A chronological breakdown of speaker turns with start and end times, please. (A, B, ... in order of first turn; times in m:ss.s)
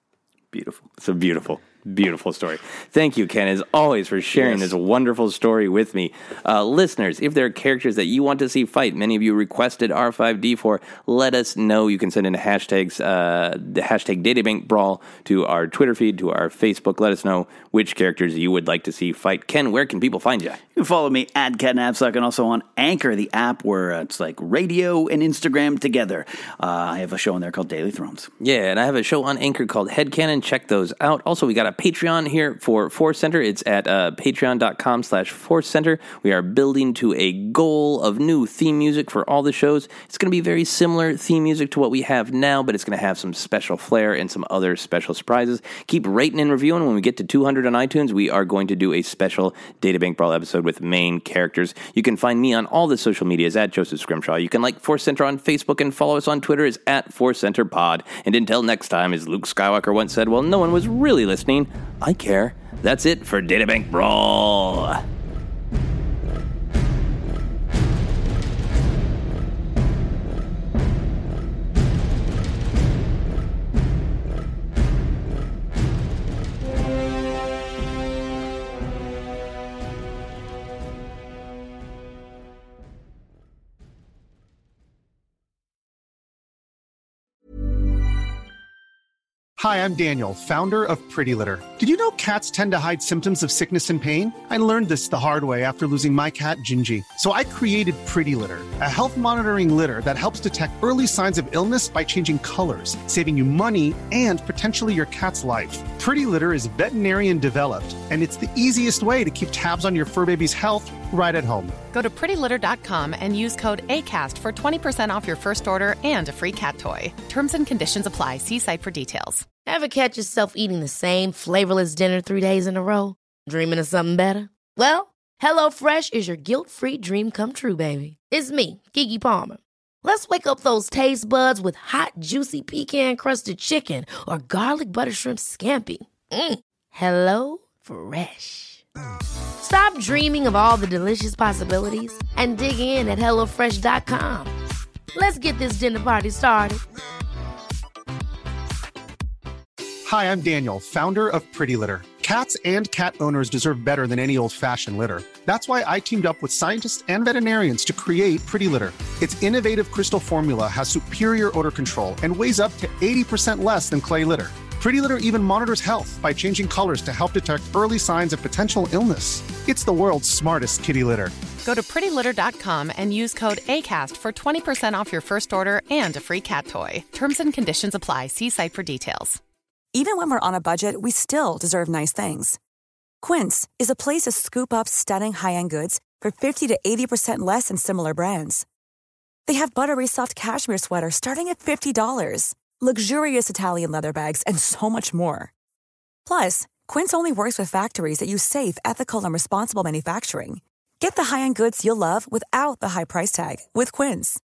0:00.5-0:00.9 A
0:01.0-0:20.6 B
0:04.3-0:04.7 A
0:20.8-0:28.3 A
0:28.4-1:05.0 B
1:29.6-1:51.8 C
1:51.9-1:59.5 D
1:59.6-2:18.8 E
2:19.6-2:24.5 E
2:25.1-2:26.8 E
2:30.0-2:51.3 C
2:51.6-2:59.4 D
2:59.9-3:02.6 F
3:03.2-3:08.6 F
3:09.5-3:15.5 F
3:16.2-3:24.4 F